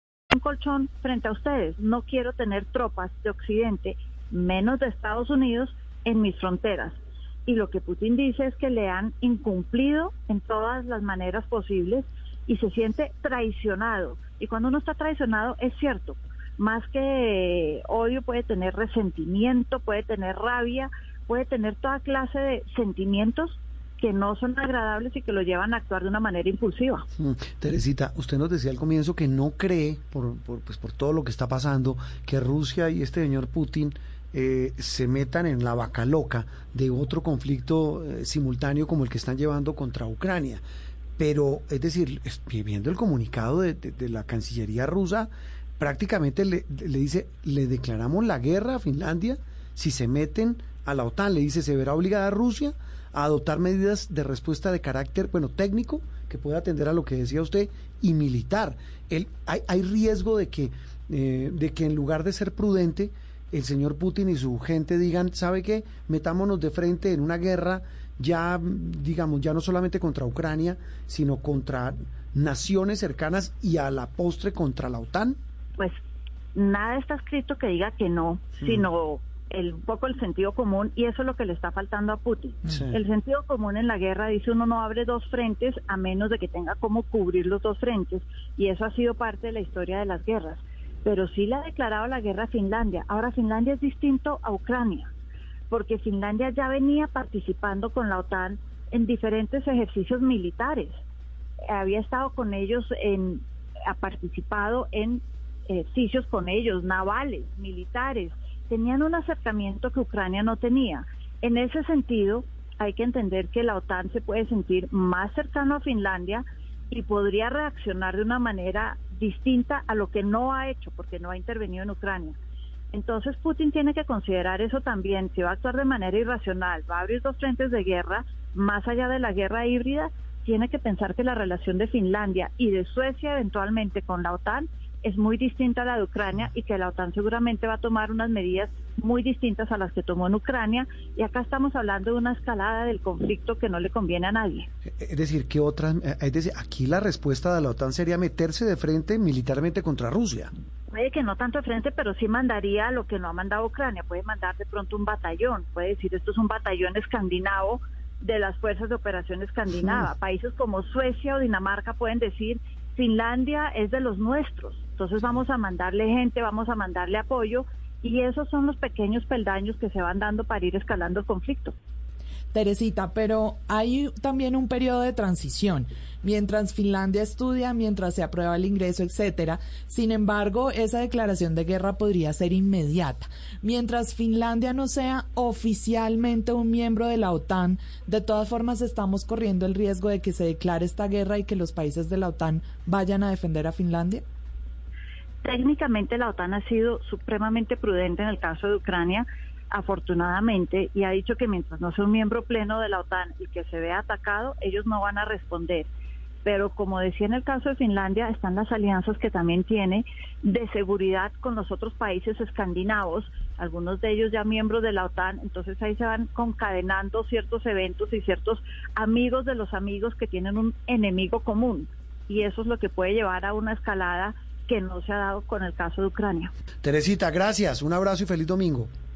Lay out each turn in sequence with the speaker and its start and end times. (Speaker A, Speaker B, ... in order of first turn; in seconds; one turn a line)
Speaker A: 0.3-27.1
Speaker B: 27.2-40.6
Speaker B: 41.2-75.4
Speaker A: 76.5-95.1
Speaker B: 82.7-83.0
Speaker A: 95.7-101.0
Speaker A: 101.7-122.4
Speaker A: 122.9-144.7
Speaker B: 145.0-150.5
Speaker A: 150.9-171.8
Speaker C: 172.5-194.2
Speaker A: 195.4-205.9
Speaker A: 206.4-226.5
Speaker B: 226.8-228.9